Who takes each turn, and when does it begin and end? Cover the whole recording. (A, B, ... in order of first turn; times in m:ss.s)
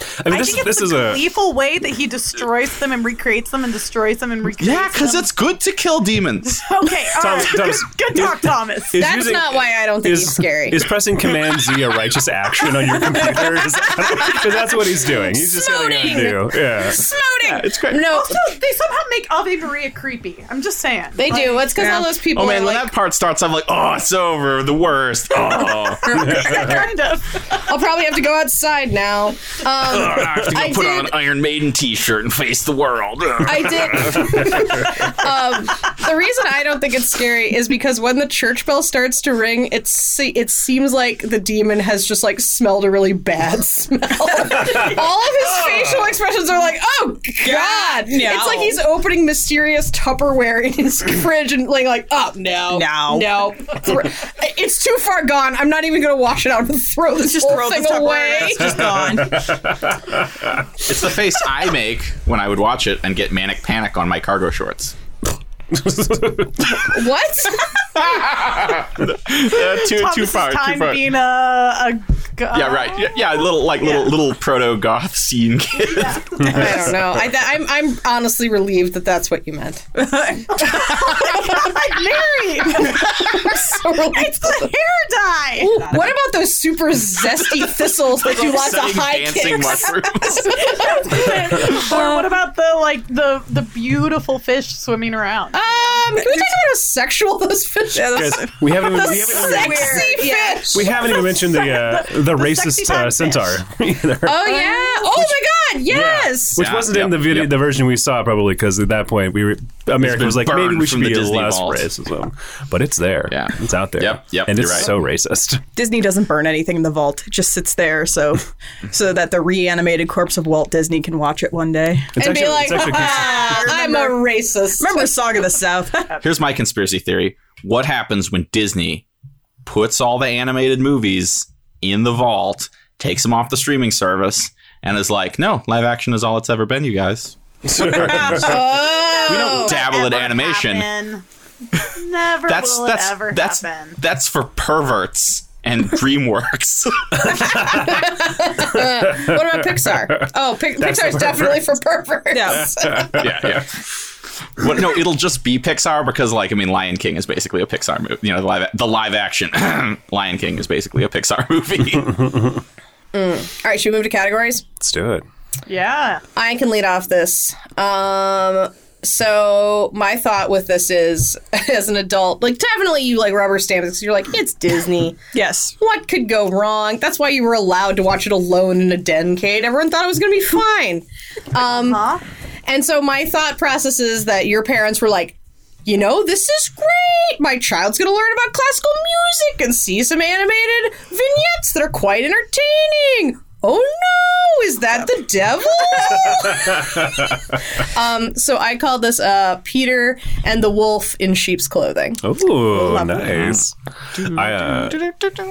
0:00.2-0:01.2 A
0:00.3-0:05.3 B
0:04.6-0:06.6 C
0:06.6-0:09.0 B
0:07.1-0:17.1 A
0:09.0-0:10.8 D
0:14.0-0:18.4 D
0:17.4-0:18.1 C
0:18.1-0:21.7 B
0:21.2-0:22.9 D
0:21.7-0:22.2 E
0:22.2-0:26.8 C
0:26.0-0:27.6 B
0:27.7-0:31.2 D
0:29.8-0:34.5 C
0:33.4-0:59.1 D
0:47.4-0:48.8 E
0:52.7-0:53.3 E
0:57.2-0:59.6 E
0:58.8-1:00.6 A
1:00.8-1:05.0 C
1:05.7-1:06.9 A
1:06.7-1:07.7 D
1:07.9-1:11.0 C
1:09.5-1:14.1 B
1:12.5-1:16.9 C
1:15.8-1:16.4 B
1:16.4-1:22.0 D
1:20.0-1:20.6 E
1:20.6-1:25.8 B
1:22.6-1:24.7 D
1:25.6-1:32.1 D
1:28.2-1:30.7 C
1:30.5-1:36.0 B
1:35.5-1:40.9 D
1:36.2-1:36.6 E
1:38.0-1:40.8 E
1:38.1-1:45.3 A
1:40.9-1:43.6 B
1:44.2-1:46.6 D
1:44.6-1:44.9 E
1:45.9-1:55.6 A
1:46.6-1:47.5 C
1:50.0-1:51.8 C
1:53.3-1:54.9 C
1:55.8-2:02.2 E
2:02.2-2:03.5 A
2:02.2-2:05.2 D
2:02.7-2:04.2 E
2:04.8-2:06.2 E
2:06.2-2:09.0 C
2:09.6-2:18.4 C
2:17.6-2:18.6 A
2:18.1-2:19.8 D
2:19.1-2:21.2 B
2:19.3-2:20.9 C
2:21.8-2:24.0 B
2:22.5-2:27.7 C
2:27.3-2:33.2 D
2:27.4-2:28.0 A
2:28.6-2:30.3 A
2:30.8-2:31.7 A
2:32.3-2:32.7 E
2:32.8-2:33.5 A
2:33.1-2:33.7 C
2:34.6-2:42.2 C
2:42.2-2:42.5 A
2:43.1-2:44.6 D
2:44.8-2:45.2 A
2:45.7-2:46.2 B
2:46.4-2:55.2 D
2:55.3-2:55.7 E
2:55.8-3:02.0 D
3:01.6-3:02.2 B
3:02.7-3:22.2 D
3:16.4-3:17.4 A
3:22.2-3:25.1 A
3:25.0-3:25.4 C